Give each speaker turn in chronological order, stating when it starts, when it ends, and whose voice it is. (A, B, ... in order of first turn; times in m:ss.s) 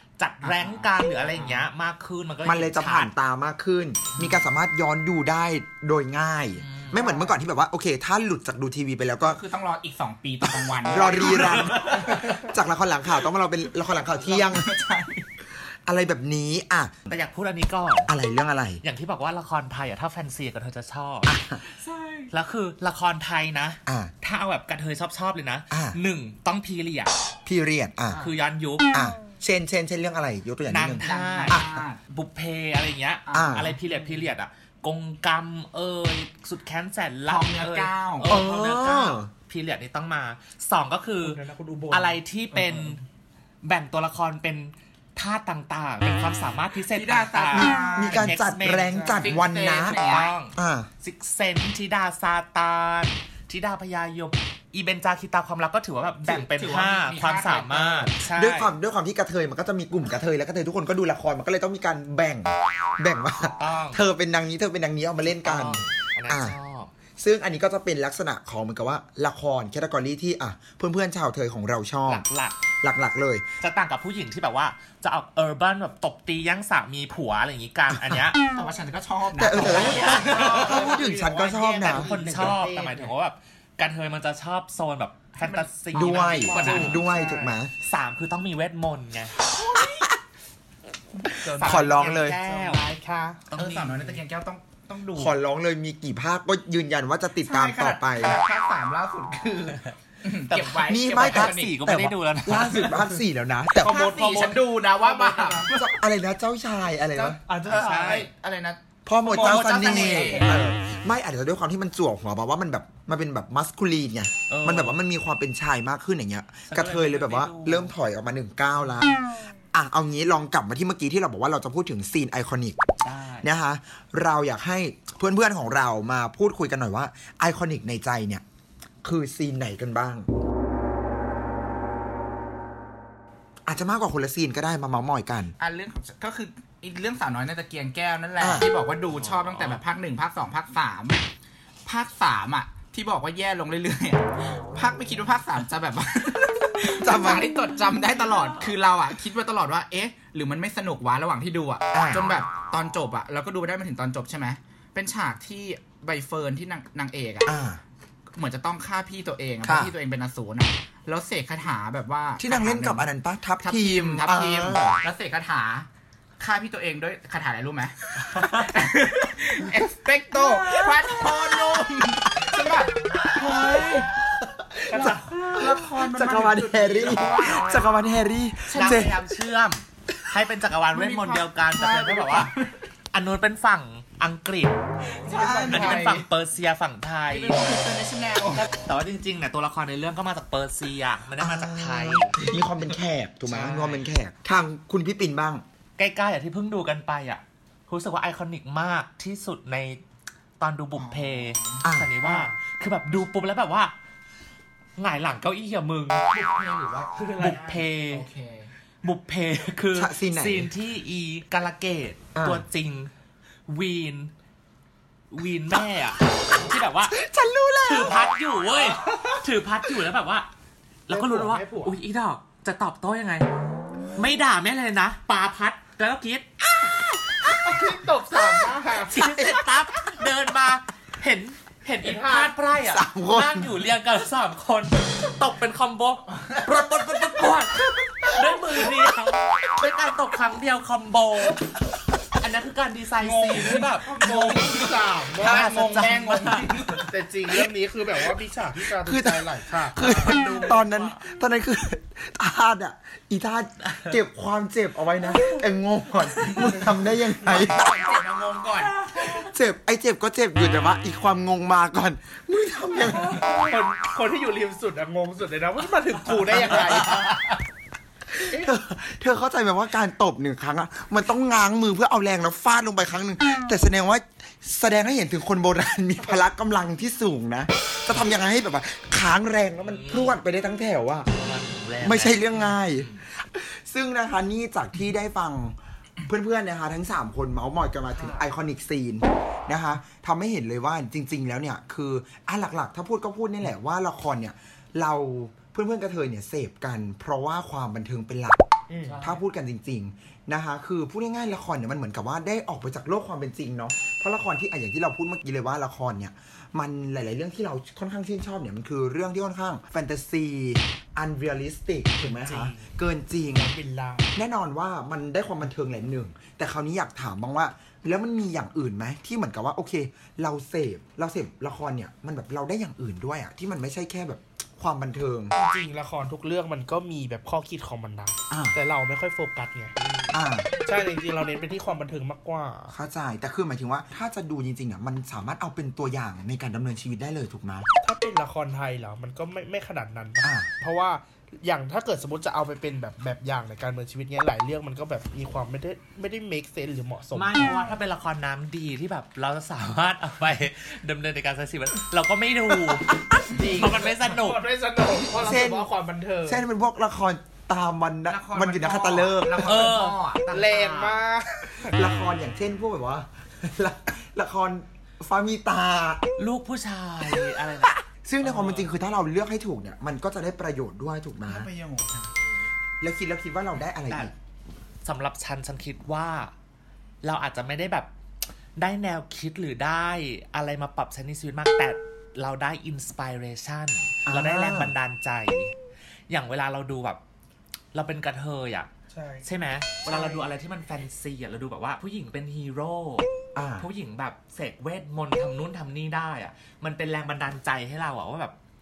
0:00.2-0:03.1 A
0:00.4-0:01.7 B
0:02.4-0:09.4 C
0:06.6-0:07.3 A
0:09.2-0:12.5 B
0:10.8-0:14.7 C
0:11.2-0:11.8 A
0:14.2-0:15.2 B
0:15.8-0:17.0 C
0:17.1-0:18.1 A
0:18.1-0:18.8 C
0:18.8-0:21.3 A
0:21.2-0:21.6 C
0:21.8-0:22.3 B
0:22.3-0:27.1 A
0:23.9-0:24.1 C
0:25.7-0:26.0 C
0:27.4-0:28.2 C
0:28.1-0:28.8 A
0:28.9-0:31.8 C
0:30.7-0:43.0 A
0:31.0-0:32.0 B
0:33.3-0:33.7 B
0:33.3-0:33.8 C
0:37.3-0:38.3 B
0:38.2-0:39.3 C
0:41.2-0:42.2 D
0:42.5-0:43.0 B
0:43.6-0:49.1 A
0:46.7-0:48.3 B
0:47.5-0:50.0 C
0:48.9-0:49.3 D
0:49.2-0:50.3 B
0:49.8-0:58.7 A
0:50.5-0:50.9 C
0:56.2-0:58.2 B
0:58.3-1:06.6 C
1:03.6-1:04.0 A
1:05.4-1:06.9 A
1:07.2-1:12.3 C
1:12.0-1:12.6 A
1:12.8-1:13.4 C
1:13.6-1:18.4 A
1:18.5-1:22.4 B
1:19.3-1:22.1 C
1:19.6-1:20.8 A
1:19.8-1:23.1 D
1:21.9-1:27.0 A
1:25.4-1:27.0 B
1:25.9-1:27.7 C
1:26.4-1:27.6 D
1:27.8-1:29.4 A
1:31.4-1:31.9 B
1:31.4-1:32.4 C
1:31.5-1:32.8 A
1:32.4-1:33.4 D
1:33.5-1:34.2 A
1:33.5-1:35.3 B
1:35.1-1:38.4 C
1:37.4-1:41.8 B
1:40.5-1:43.0 A
1:40.9-1:44.0 C
1:43.8-1:45.7 D
1:43.8-1:45.9 B
1:45.7-1:47.4 C
1:47.1-1:50.6 B
1:47.4-1:48.3 D
1:47.7-1:48.2 A
1:49.0-1:59.2 C
1:49.3-1:50.4 A
1:49.4-1:49.7 D
1:54.5-1:55.0 A
1:56.7-1:57.9 A
1:59.7-2:02.8 C
2:03.0-2:03.5 A
2:03.4-2:08.4 C
2:09.0-2:10.3 C
2:13.7-2:15.5 C
2:15.6-2:21.2 B
2:18.4-2:18.7 C
2:19.1-2:19.8 A
2:21.8-2:37.5 B
2:27.0-2:27.5 C
2:31.9-2:32.3 C
2:37.4-2:37.8 C
2:38.3-2:45.9 B
2:39.6-2:39.9 C
2:42.4-2:45.0 C
2:46.4-2:54.1 B
2:48.3-2:48.7 A
2:50.5-2:52.0 C
2:54.6-2:59.2 C
2:54.9-2:57.9 B
2:58.7-2:59.1 B
2:58.7-3:02.5 A
3:00.9-3:02.7 B
3:03.1-3:04.8 A
3:05.2-3:06.3 B
3:05.3-3:05.9 C
3:05.4-3:07.7 A
3:07.3-3:08.7 B
3:08.5-3:12.4 A
3:11.4-3:15.6 C
3:13.4-3:14.1 B
3:16.0-3:20.0 A
3:20.6-3:23.9 A
3:21.0-3:21.8 B
3:21.8-3:22.1 C
3:25.0-3:26.2 A
3:26.3-3:28.7 B
3:27.2-3:27.6 D
3:27.3-3:28.2 A
3:29.0-3:33.1 A
3:29.9-3:30.7 C
3:32.3-3:32.6 C
3:33.7-3:34.3 A
3:35.3-3:37.1 A
3:37.0-3:38.3 C
3:37.8-3:40.5 A
3:41.1-3:43.5 A
3:41.1-3:42.0 D
3:44.1-3:46.4 A
3:46.8-3:47.5 C
3:47.5-3:49.2 D
3:49.0-4:01.6 A
3:52.0-3:52.5 D
3:52.8-3:53.7 C
4:02.4-4:04.7 A
4:03.2-4:05.7 D
4:04.2-4:07.0 B
4:05.4-4:06.9 A
4:06.8-4:10.5 D
4:09.0-4:17.9 C
4:10.0-4:11.1 B
4:13.8-4:14.2 A
4:17.4-4:19.0 B
4:19.3-4:23.6 C
4:23.2-4:27.3 D
4:28.3-4:41.3 C
4:39.8-4:40.4 A
4:41.3-4:43.2 A
4:42.0-4:58.6 C
4:48.1-4:48.5 A
4:58.9-4:59.2 D
4:59.0-4:59.4 A
4:59.2-5:13.7 C
5:12.2-5:12.9 D
5:13.5-5:14.3 D
5:14.3-5:25.5 C
5:25.5-5:33.0 D
5:28.5-5:28.8 C
5:30.3-5:30.7 C
5:32.9-5:37.9 C
5:38.0-5:48.0 D
5:40.4-5:40.7 C
5:47.3-5:54.6 A
5:53.5-5:56.6 D
5:55.2-5:55.9 C
5:56.4-5:59.9 C
5:58.3-6:00.4 B
5:59.6-6:01.2 A
6:00.5-6:01.9 D
6:01.8-6:06.2 C
6:06.4-6:08.9 A
6:07.2-6:11.7 C
6:11.4-6:12.3 B
6:13.0-6:14.3 C
6:14.1-6:14.3 A
6:15.0-6:16.5 A
6:17.2-6:18.1 A
6:18.8-6:25.7 A
6:24.2-6:24.9 C
6:26.3-6:27.2 A
6:27.9-6:28.9 A
6:29.1-6:29.5 D
6:29.4-6:38.6 A
6:30.0-6:30.5 D
6:33.5-6:33.9 C